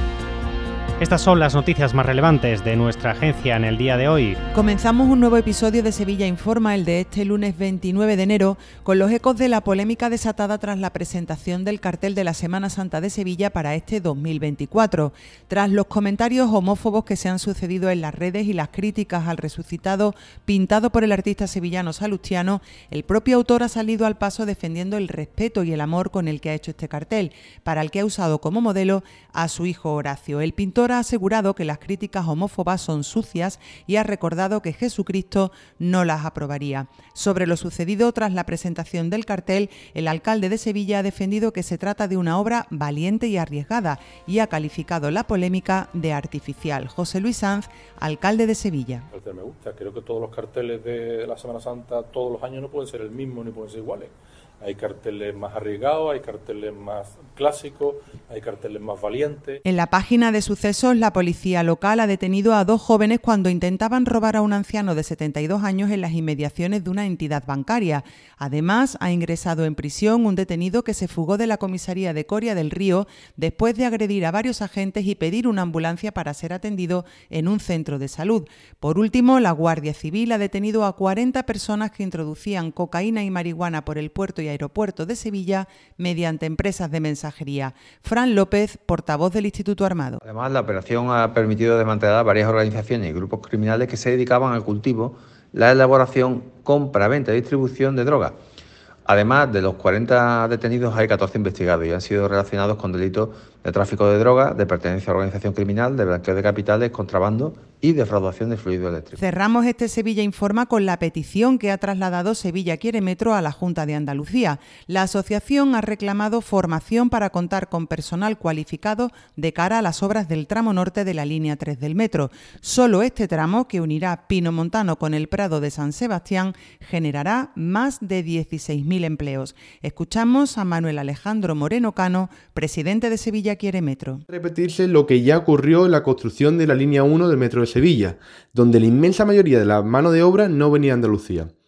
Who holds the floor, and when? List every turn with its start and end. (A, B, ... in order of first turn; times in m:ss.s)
0:01.0-0:04.4 A
0:04.5-0:49.1 B
0:49.1-0:59.6 C
0:59.6-1:30.2 B
1:30.2-1:38.4 D
1:39.1-1:49.2 D
1:49.2-2:14.2 B
2:14.3-2:21.5 E